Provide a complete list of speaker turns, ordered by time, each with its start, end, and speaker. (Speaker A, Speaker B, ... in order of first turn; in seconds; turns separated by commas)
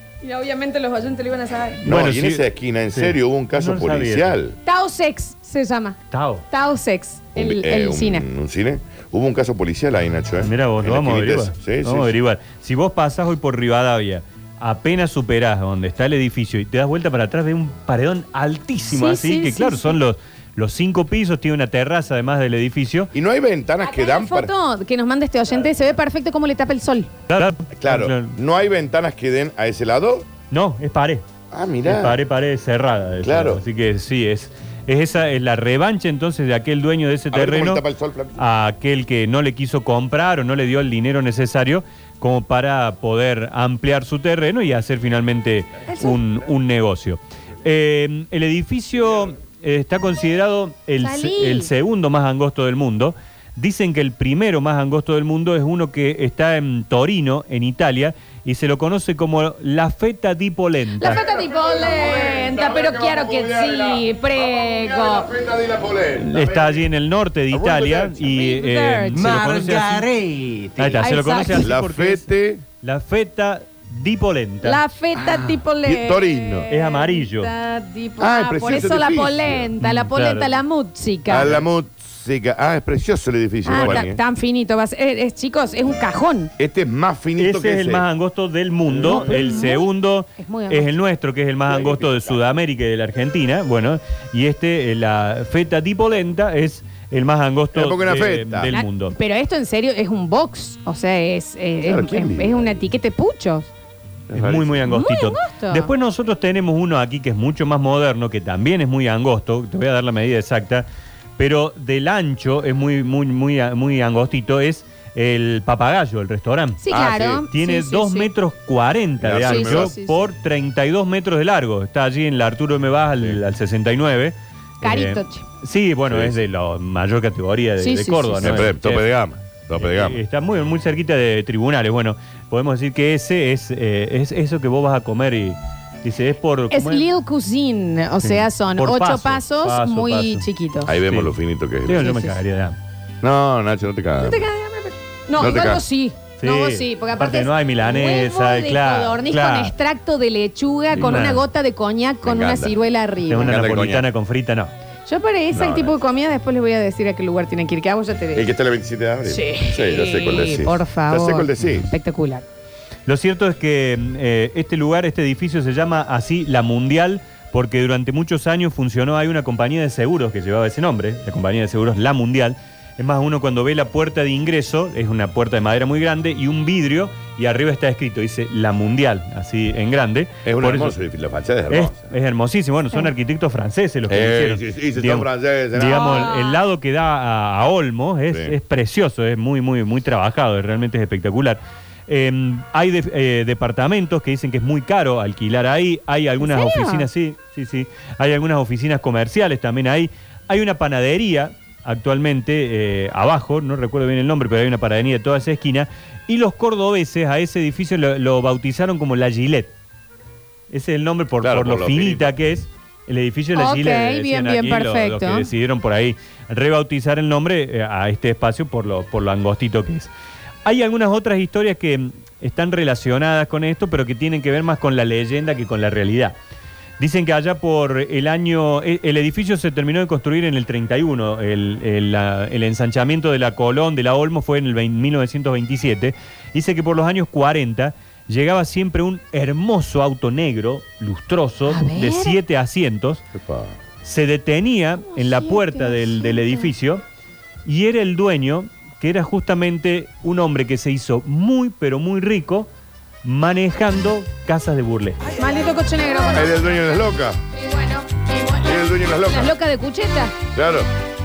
Speaker A: 0.2-1.8, Speaker B: 1.8-4.3, Speaker C: 1.9-4.6, Speaker A: 4.6-6.0, Speaker B: 6.1-6.4, Speaker A: 6.5-8.2, Speaker C: 7.3-12.1, Speaker B: 10.4-23.1, Speaker A: 18.9-20.0, Speaker C: 23.1-24.5, Speaker A: 23.8-27.1, Speaker B: 27.3-28.4, Speaker C: 27.7-30.3, Speaker B: 30.5-31.2, Speaker C: 31.5-32.2, Speaker B: 31.8-37.8, Speaker C: 33.2-33.6, Speaker C: 37.3-38.4, Speaker B: 38.4-61.2, Speaker A: 45.9-46.2, Speaker A: 51.0-51.7, Speaker A: 61.0-65.3, Speaker C: 61.0-66.9, Speaker B: 66.2-72.3, Speaker C: 67.5-68.3, Speaker A: 68.2-70.0, Speaker C: 69.2-69.5, Speaker A: 70.8-71.7, Speaker C: 71.6-72.6, Speaker B: 72.8-74.8, Speaker A: 74.6-81.5, Speaker C: 75.8-76.7, Speaker B: 76.7-77.5, Speaker C: 78.2-79.7, Speaker B: 79.8-80.6, Speaker C: 81.3-84.2, Speaker A: 83.6-86.5, Speaker B: 83.7-84.1, Speaker C: 86.6-88.0, Speaker B: 87.4-99.2, Speaker C: 88.9-89.6, Speaker A: 89.0-90.9, Speaker C: 91.7-92.4, Speaker C: 97.7-98.7, Speaker A: 98.7-103.7, Speaker C: 101.8-102.8, Speaker C: 104.3-104.8, Speaker B: 104.3-110.8, Speaker A: 104.8-105.9, Speaker B: 111.4-129.1, Speaker A: 116.8-118.3, Speaker C: 116.9-117.4, Speaker C: 119.2-119.9, Speaker A: 119.4-120.2, Speaker A: 124.8-125.4, Speaker C: 126.1-126.4, Speaker A: 127.8-128.6, Speaker C: 128.4-130.2, Speaker B: 129.8-137.1, Speaker A: 136.7-140.9, Speaker B: 138.2-140.5, Speaker C: 140.8-142.1, Speaker B: 141.1-141.3, Speaker B: 141.8-142.8, Speaker A: 141.9-142.4, Speaker C: 143.2-144.4, Speaker A: 144.2-153.5, Speaker C: 145.3-145.8, Speaker B: 146.4-149.7, Speaker C: 150.9-151.3, Speaker B: 151.0-151.4, Speaker C: 152.2-152.7, Speaker B: 153.3-154.7, Speaker C: 153.4-154.1, Speaker A: 155.1-158.5, Speaker C: 155.5-156.0, Speaker C: 158.3-161.9, Speaker A: 159.2-162.4, Speaker B: 163.1-180.9, Speaker C: 180.4-182.1, Speaker B: 181.7-209.7, Speaker C: 184.1-186.3, Speaker A: 185.9-186.6, Speaker C: 188.3-188.6, Speaker A: 196.4-197.1, Speaker B: 210.7-220.1, Speaker C: 211.4-212.3, Speaker A: 213.5-215.5, Speaker B: 220.6-226.3, Speaker B: 227.0-243.2, Speaker A: 241.7-242.4, Speaker C: 243.3-243.8, Speaker B: 244.0-247.0, Speaker A: 245.1-246.7, Speaker B: 247.6-252.7, Speaker B: 253.2-255.2, Speaker A: 255.3-256.7, Speaker C: 256.3-257.4, Speaker A: 257.5-260.3, Speaker C: 258.6-259.5, Speaker C: 260.5-260.9